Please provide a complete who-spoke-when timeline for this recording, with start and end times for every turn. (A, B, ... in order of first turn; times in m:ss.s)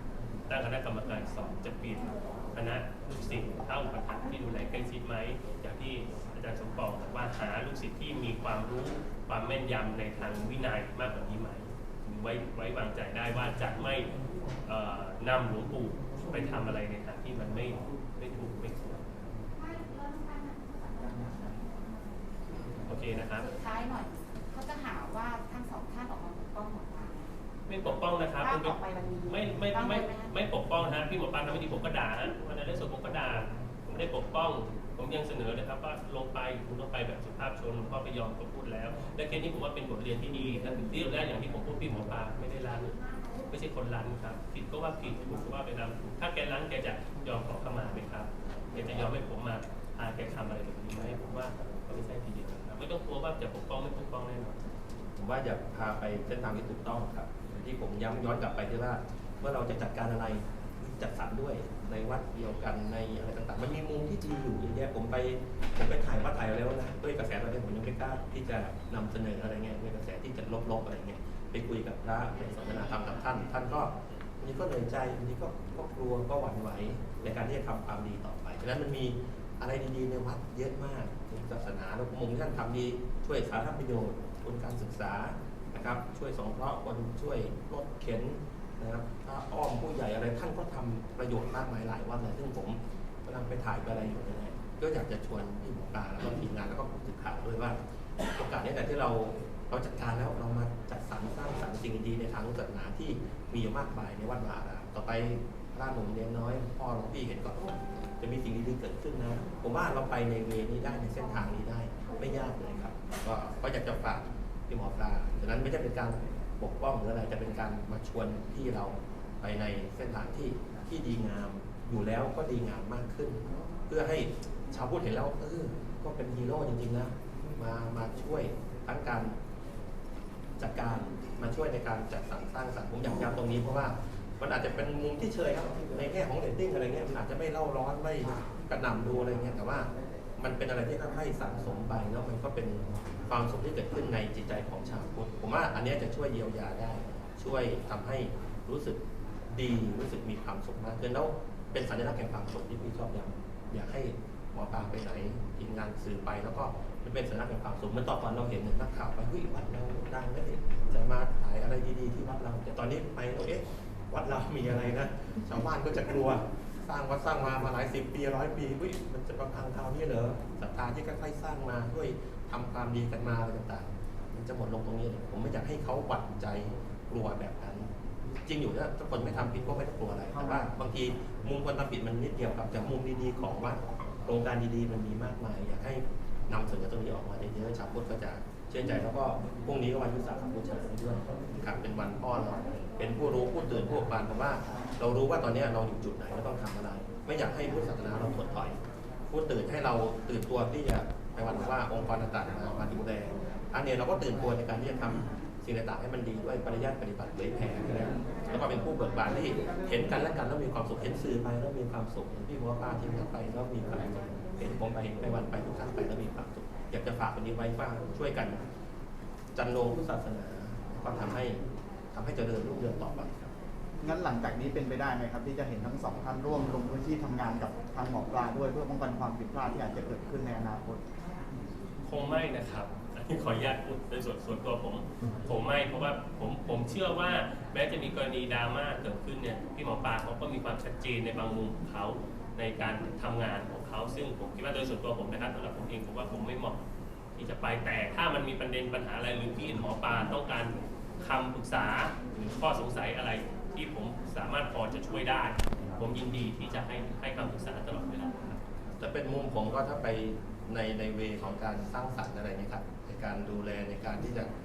0:00.5-0:14.1 A
0:14.6-0:19.0 A
0:19.5-0:22.2 B
0:22.9-0:23.5 A
0:23.4-0:27.4 B
0:27.7-0:28.8 A
0:28.0-0:30.3 B
0:29.3-0:54.6 A
0:55.2-1:37.8 C
1:38.3-2:09.4 C
2:10.6-2:29.0 C
2:29.5-2:57.9 C
2:58.4-3:38.6 C
3:00.3-3:00.7 D
3:39.5-3:41.6 C
3:42.1-3:43.5 C
3:44.0-3:51.0 D
3:52.0-4:06.8 A
4:07.4-4:18.6 A
4:19.0-4:24.5 C